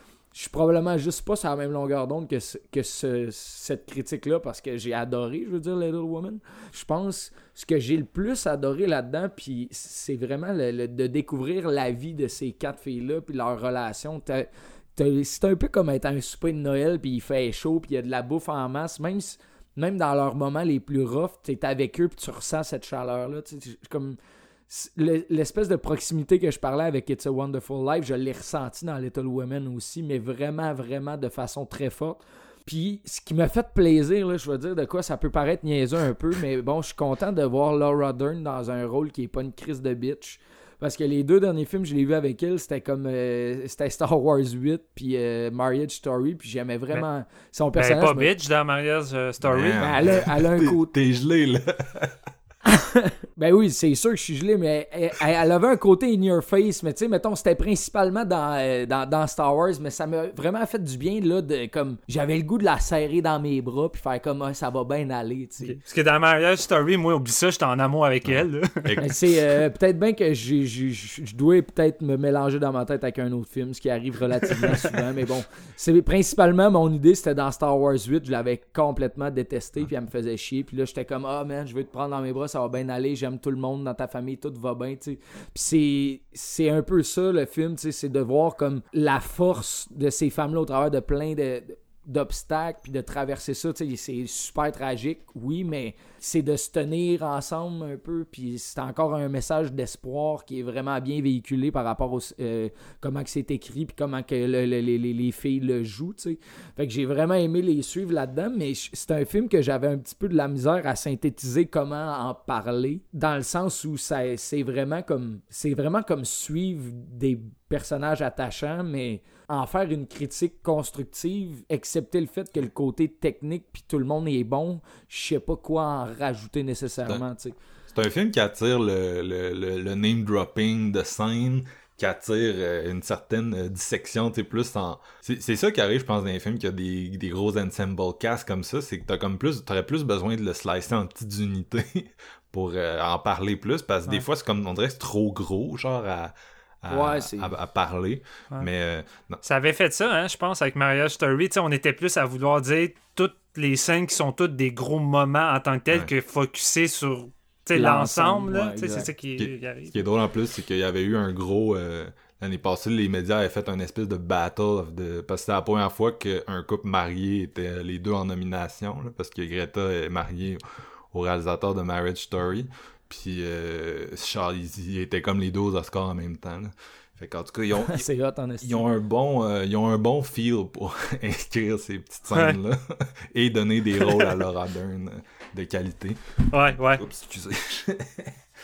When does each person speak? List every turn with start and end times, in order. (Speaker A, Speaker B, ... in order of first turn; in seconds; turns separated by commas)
Speaker A: 0.3-24.2, Speaker A: 24.7-48.3, Speaker B: 47.8-50.0, Speaker C: 49.4-52.2, Speaker A: 49.8-50.9, Speaker A: 52.7-65.8, Speaker B: 65.6-68.9, Speaker C: 68.2-69.2, Speaker A: 69.0-127.6, Speaker C: 127.9-149.4, Speaker A: 146.9-147.5, Speaker B: 149.4-160.0, Speaker A: 157.7-159.1, Speaker C: 159.3-170.6, Speaker C: 171.1-178.0, Speaker A: 177.9-178.8, Speaker C: 178.6-186.2, Speaker B: 186.5-187.0, Speaker C: 186.9-188.3